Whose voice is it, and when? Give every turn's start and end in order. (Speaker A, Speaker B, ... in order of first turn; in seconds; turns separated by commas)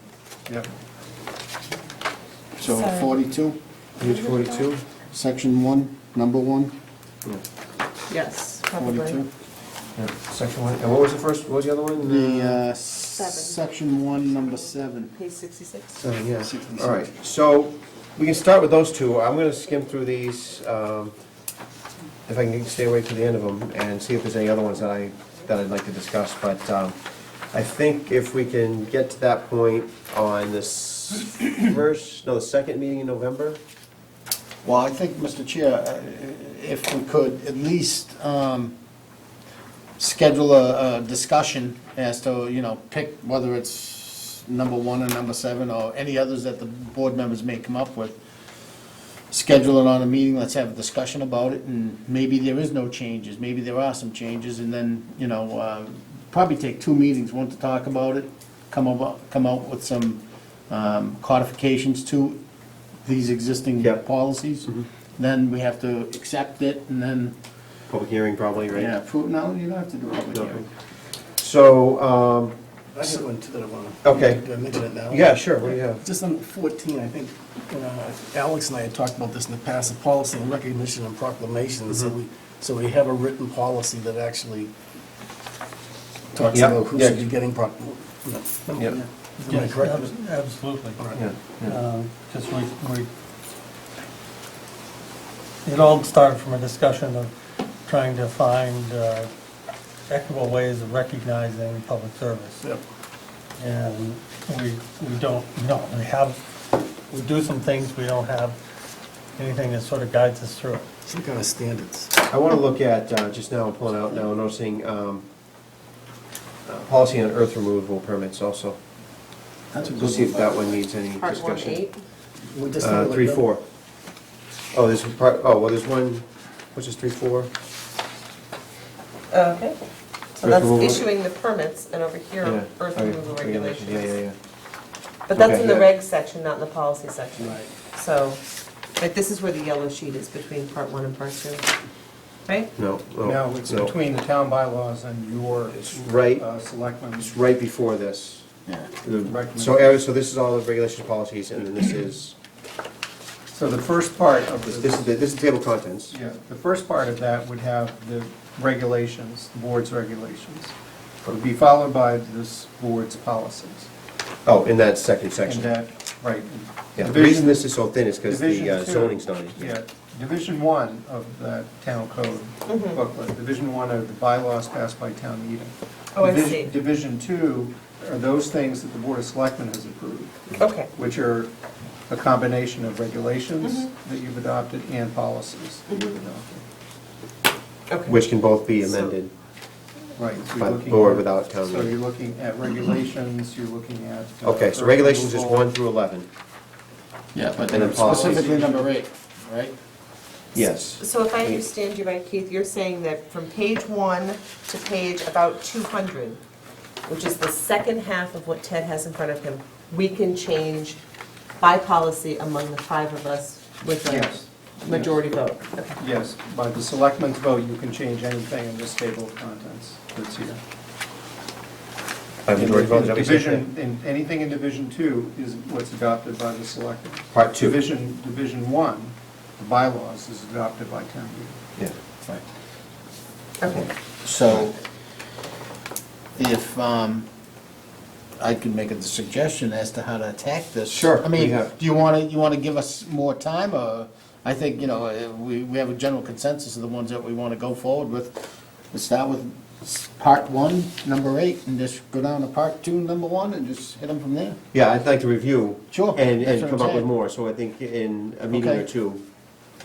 Speaker A: 2.6-3.6, Speaker B: 2.7-3.1, Speaker C: 4.0-4.8, Speaker B: 4.0-4.7, Speaker A: 5.1-6.7, Speaker B: 8.1-9.2, Speaker A: 8.8-9.3, Speaker C: 10.0-12.6, Speaker A: 12.0-15.1, Speaker B: 13.2-13.7, Speaker B: 14.4-16.0, Speaker C: 16.0-21.1, Speaker A: 16.4-17.1, Speaker C: 22.3-27.0, Speaker C: 27.5-33.6, Speaker A: 34.6-38.8, Speaker A: 40.0-48.2, Speaker A: 49.3-62.4, Speaker A: 63.0-67.4, Speaker C: 63.8-64.0, Speaker C: 67.9-68.9, Speaker A: 68.7-70.7, Speaker C: 70.3-70.7, Speaker C: 71.4-73.2, Speaker D: 73.0-84.7, Speaker C: 74.0-74.4, Speaker C: 75.1-76.0, Speaker D: 86.3-90.2, Speaker C: 86.5-87.3, Speaker E: 89.4-91.0, Speaker C: 91.2-91.8, Speaker E: 91.6-93.1, Speaker E: 95.7-97.3, Speaker E: 97.8-99.3, Speaker E: 100.1-102.6, Speaker E: 103.6-106.4, Speaker E: 106.9-108.6, Speaker E: 109.4-110.9, Speaker D: 111.0-112.1, Speaker C: 112.3-115.3, Speaker C: 116.7-118.8, Speaker A: 119.7-120.8, Speaker C: 119.8-121.8, Speaker B: 121.2-122.0, Speaker D: 122.4-123.4, Speaker C: 122.8-123.6, Speaker C: 124.7-127.5, Speaker B: 129.3-129.8, Speaker B: 130.4-134.2, Speaker C: 130.4-131.0, Speaker C: 132.4-134.4, Speaker B: 135.3-138.4, Speaker C: 135.3-135.9, Speaker B: 139.0-141.7, Speaker B: 142.5-142.7, Speaker C: 142.8-143.9, Speaker F: 143.2-147.3, Speaker C: 146.0-146.5, Speaker C: 147.2-148.5, Speaker A: 148.7-148.9, Speaker C: 149.0-152.3, Speaker F: 149.2-150.0, Speaker F: 153.5-155.1, Speaker C: 154.7-156.2, Speaker F: 156.1-160.7, Speaker F: 161.3-163.9, Speaker C: 164.5-165.7, Speaker F: 165.4-167.7, Speaker C: 167.0-169.8, Speaker F: 168.2-181.5, Speaker B: 172.7-173.0, Speaker B: 176.2-176.7, Speaker B: 180.6-180.9, Speaker F: 182.1-186.6, Speaker B: 183.6-183.9, Speaker B: 185.9-186.2, Speaker B: 187.9-188.2, Speaker C: 188.1-189.3, Speaker B: 188.8-189.1, Speaker F: 190.2-195.7, Speaker C: 190.6-191.9, Speaker C: 194.4-196.3, Speaker A: 197.3-199.8, Speaker C: 197.7-198.5, Speaker F: 197.8-198.9, Speaker C: 200.5-201.6, Speaker B: 201.0-206.4, Speaker B: 207.1-211.0, Speaker B: 211.6-215.9, Speaker F: 214.1-215.1, Speaker F: 216.0-220.6, Speaker C: 222.5-223.7, Speaker A: 222.5-223.2, Speaker F: 223.1-231.6, Speaker C: 227.3-227.8, Speaker C: 233.6-233.9, Speaker A: 234.2-234.8, Speaker A: 236.4-237.3, Speaker A: 238.4-254.6, Speaker C: 240.9-241.7, Speaker C: 254.7-259.2, Speaker A: 255.9-257.1, Speaker A: 258.5-258.9